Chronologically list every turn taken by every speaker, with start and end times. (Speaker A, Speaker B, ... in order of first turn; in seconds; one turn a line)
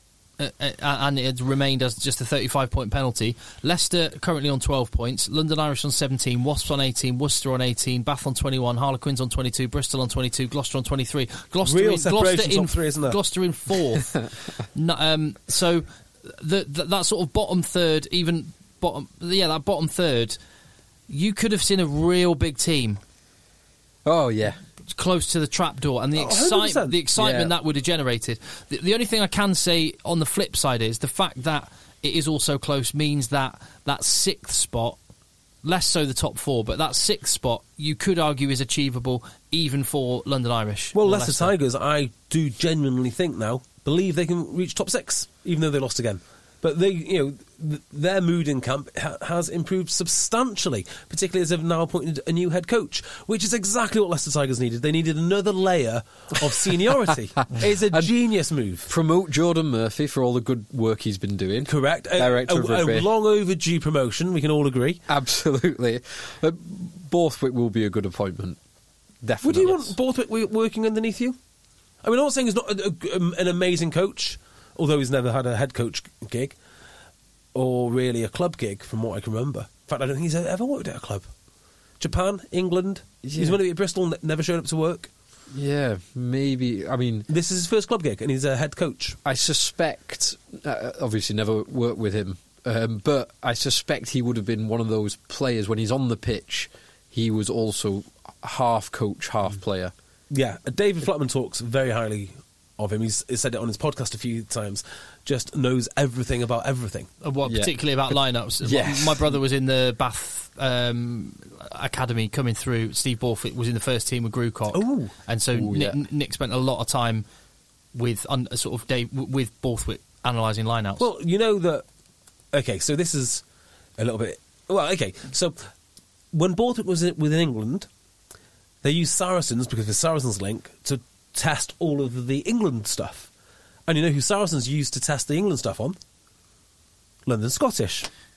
Speaker A: 0.4-14.1
Speaker B: 11.6-13.2
Speaker A: 14.7-20.4
Speaker A: 21.1-23.0
Speaker C: 24.0-24.6
Speaker A: 24.9-35.0
Speaker B: 26.1-26.9
Speaker C: 27.1-27.5
Speaker A: 35.6-41.5
Speaker B: 40.9-58.9
Speaker C: 57.6-58.1
Speaker C: 58.9-63.1
Speaker B: 61.6-65.0
Speaker C: 65.1-68.6
Speaker C: 69.2-70.0
Speaker B: 69.4-71.3
Speaker B: 72.0-76.5
Speaker B: 77.5-81.3
Speaker B: 82.0-85.1
Speaker C: 83.2-83.6
Speaker C: 85.5-87.3
Speaker B: 87.3-89.2
Speaker C: 89.2-99.9
Speaker B: 100.3-107.1
Speaker A: 107.2-117.2
Speaker C: 107.4-109.3
Speaker B: 114.7-115.1
Speaker C: 115.5-116.0
Speaker A: 117.9-121.0
Speaker B: 121.0-121.8
Speaker B: 122.5-123.4
Speaker B: 124.0-125.6
Speaker B: 126.3-127.9
Speaker B: 128.8-133.3
Speaker B: 133.9-135.9
Speaker B: 137.2-138.1